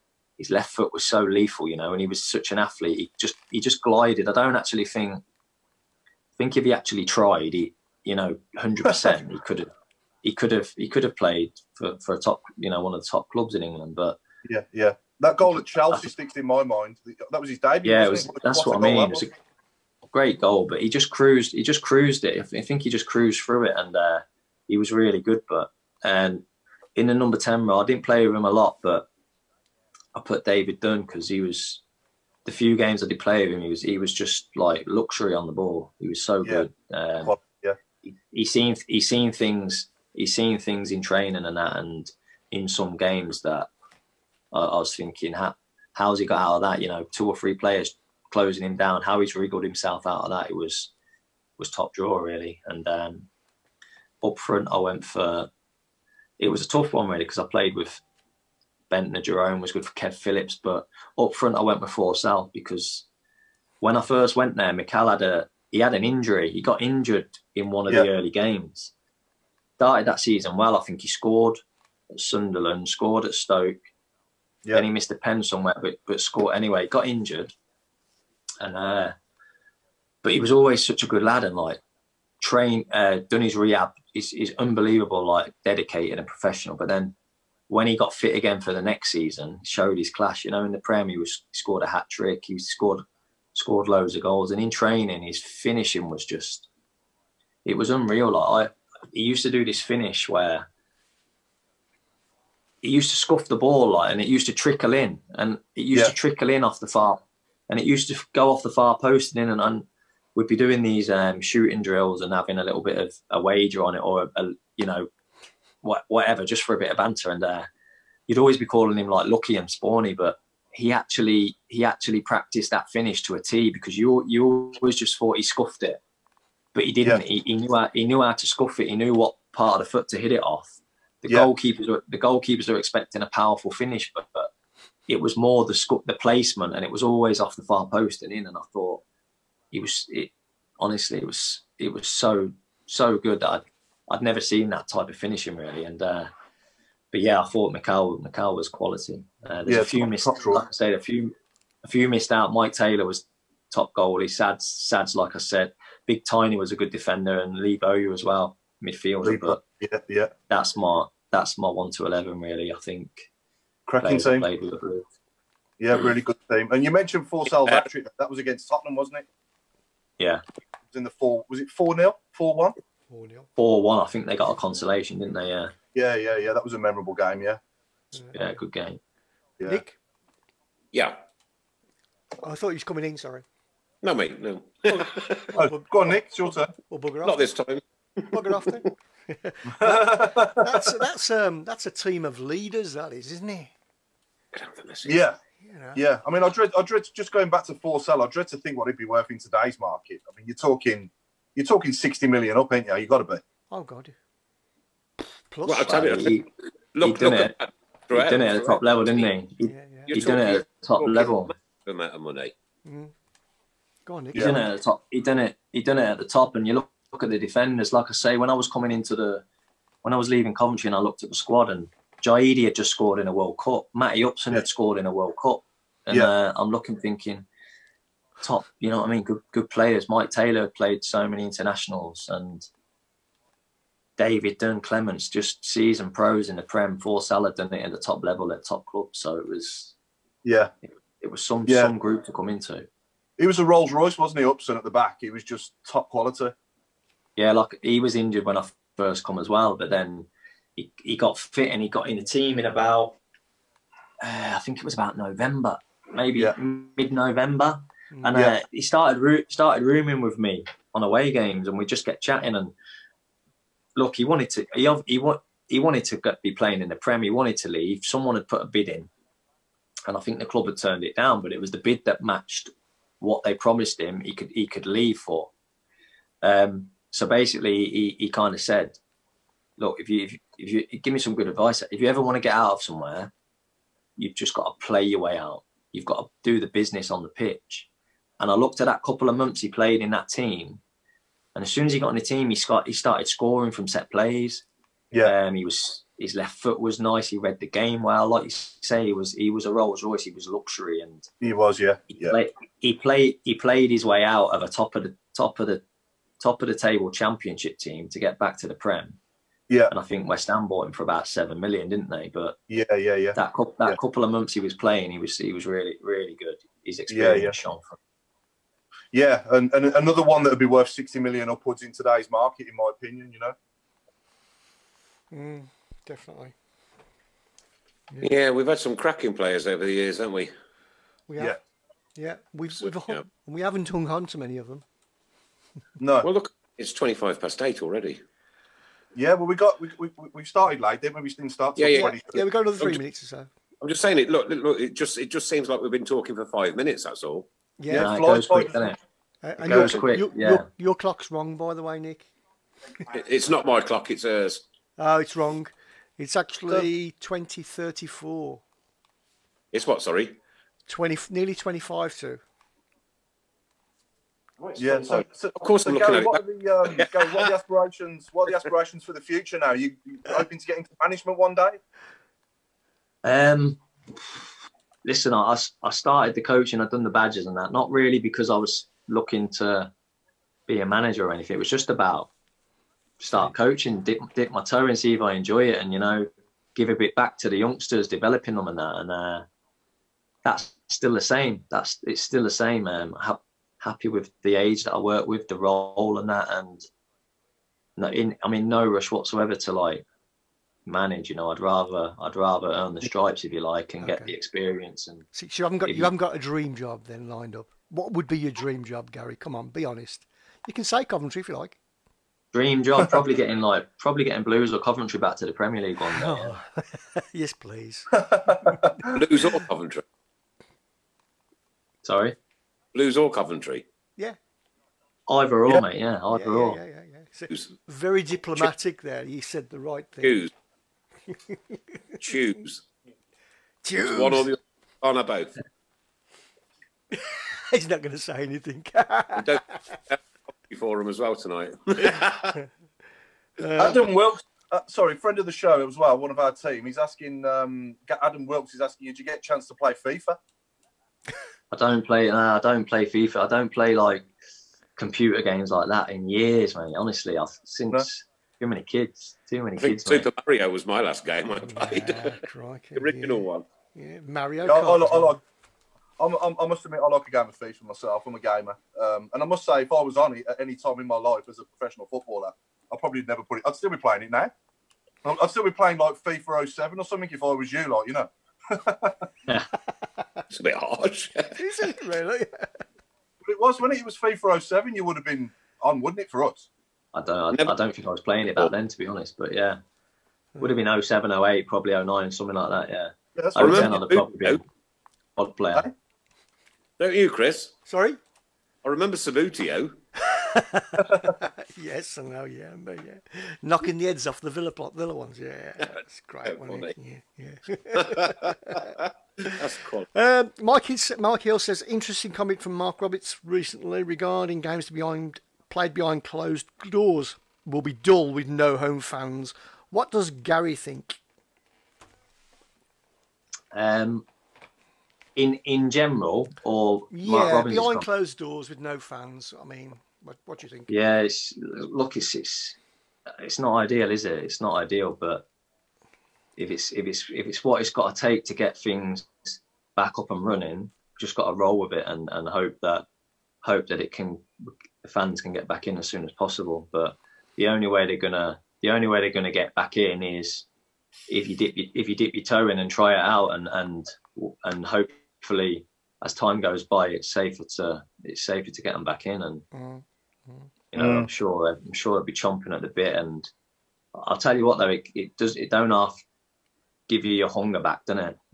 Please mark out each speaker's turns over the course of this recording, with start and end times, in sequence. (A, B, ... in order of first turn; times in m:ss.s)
0:00.4-0:05.2 A
0:06.4-0:09.7 A
0:10.2-0:14.2 A
0:14.4-0:19.3 B
0:17.8-0:19.3 A
0:20.1-0:26.4 A
0:27.0-0:29.1 A
0:30.2-0:31.8 A
0:32.4-0:37.4 A
0:37.2-0:37.8 B
0:38.0-0:43.7 A
0:44.5-0:50.9 A
0:51.6-0:53.3 A
0:54.2-0:55.5 A
0:56.4-0:58.0 A
0:58.9-1:03.1 A
1:03.8-1:08.9 A
1:09.8-1:11.6 A
1:12.1-1:13.8 A
1:14.7-1:17.5 A
1:18.6-1:19.2 A
1:20.2-1:21.8 A
1:22.4-1:27.2 A
1:27.7-1:36.7 A
1:37.6-1:40.7 A
1:42.8-1:55.1 A
1:55.8-1:57.7 A
1:58.3-2:06.0 A
2:06.7-2:14.5 A
2:15.1-2:19.0 A
2:19.7-2:26.3 A
2:27.1-2:39.6 A
2:29.7-2:30.6 B
2:39.2-2:40.3 B
2:40.5-2:43.3 A
2:43.9-2:44.5 B
2:44.0-2:45.1 A
2:45.8-2:49.3 B
2:50.9-2:52.8 B
2:53.1-2:53.5 C
2:53.6-2:55.7 A
2:56.0-2:57.6 B
2:58.3-2:59.0 A
2:59.6-3:00.0 C
3:00.9-3:01.2 D
3:02.4-3:03.4 C
3:04.0-3:05.6 D
3:05.5-3:06.2 C
3:05.5-3:06.7 B
3:06.9-3:07.5 C
3:07.2-3:08.8 D
3:08.3-3:13.7 C
3:09.8-3:11.0 B
3:14.5-3:15.2 D
3:15.1-3:15.4 B
3:15.6-3:16.0 C
3:16.0-3:23.4 B
3:23.7-3:24.1 C
3:25.5-3:25.9 C
3:25.6-3:29.3 D
3:25.8-3:26.5 A
3:27.0-3:27.6 A
3:28.1-3:31.5 A
3:29.7-3:30.2 C
3:30.1-3:32.5 D
3:32.8-3:33.1 C
3:34.1-3:34.6 C
3:34.4-3:39.4 A
3:40.0-3:47.5 A
3:48.4-3:52.7 A
3:54.2-4:00.0 A
4:00.4-4:00.7 B
4:01.2-4:02.9 A
4:01.7-4:01.9 B
4:03.4-4:06.6 B
4:07.4-4:13.2 A
4:14.2-4:22.7 A
4:18.3-4:18.6 B
4:24.0-4:29.1 A
4:30.1-4:35.5 A
4:36.4-4:39.0 A
4:39.8-4:43.3 A
4:44.2-4:47.9 A
4:48.4-4:50.8 A
4:51.6-4:54.6 A
4:55.2-5:01.3 A
5:01.4-5:02.4 B
5:02.1-5:05.8 A
5:06.4-5:09.2 A
5:09.9-5:12.6 A
5:12.7-5:14.0 B
5:13.4-5:18.0 A
5:17.1-5:17.5 B
5:19.1-5:23.6 B
5:25.3-5:26.6 C
5:28.2-5:30.5 D
5:31.3-5:31.6 C
5:32.2-5:34.8 C
5:36.0-5:36.3 B
5:36.2-5:38.2 D
5:39.2-5:42.4 B
5:41.8-5:43.0 D
5:42.0-5:43.5 C
5:43.8-5:47.5 D
5:47.8-5:48.1 C
5:47.9-5:48.9 B
5:47.9-5:49.0 A
5:49.4-5:52.3 C
5:49.6-5:50.0 B
5:49.6-5:50.7 A
5:53.1-5:54.6 D
5:55.0-5:58.6 C
5:59.7-6:00.4 D
6:00.9-6:02.4 C
6:04.6-6:07.5 D
6:04.8-6:11.8 B
6:13.2-6:14.4 A
6:15.0-6:19.9 A
6:20.7-6:22.3 A
6:23.2-6:29.5 A
6:30.4-6:36.9 A
6:38.0-6:40.0 A
6:40.9-6:45.3 A
6:44.0-6:44.3 C
6:45.3-6:51.8 C
6:45.8-6:46.1 A
6:52.5-6:56.6 A
6:56.1-6:59.6 C
6:58.2-6:59.1 B
6:59.1-7:00.0 D
7:02.0-7:02.4 A
7:02.9-7:03.8 D
7:05.3-7:06.8 A
7:06.3-7:10.4 C
7:10.2-7:10.5 D
7:11.3-7:11.8 C
7:12.2-7:12.8 D
7:13.8-7:14.5 C
7:14.0-7:15.6 D
7:17.1-7:19.6 C
7:19.4-7:22.6 D
7:22.0-7:22.7 C
7:23.6-7:24.0 C
7:23.8-7:30.4 B
7:31.7-7:34.3 A
7:35.0-7:40.3 A
7:39.8-7:42.4 D
7:41.6-7:45.3 C
7:43.0-7:43.6 D
7:44.6-7:45.4 B
7:46.2-7:54.5 B
7:55.2-7:59.3 B
8:00.5-8:01.9 D
8:01.6-8:02.8 C
8:03.4-8:06.7 B
8:07.1-8:09.8 A
8:10.6-8:14.6 A
8:13.4-8:14.0 B
8:13.6-8:14.6 D
8:15.4-8:15.9 A
8:17.0-8:17.8 D
8:17.9-8:18.2 C
8:18.8-8:20.0 D
8:20.2-8:28.9 C
8:21.0-8:21.3 B
8:25.8-8:26.9 D
8:28.0-8:30.1 D
8:30.1-8:41.2 C
8:43.7-8:44.3 A
8:45.4-8:48.1 A
8:47.1-8:50.9 C
8:50.9-8:52.8 A
8:53.3-8:55.5 A
8:56.6-9:03.1 A
9:03.6-9:10.7 A
9:11.3-9:19.6 A
9:19.7-9:20.7 C
9:20.9-9:23.5 A
9:21.0-9:21.3 B
9:24.1-9:26.2 A
9:27.1-9:28.4 A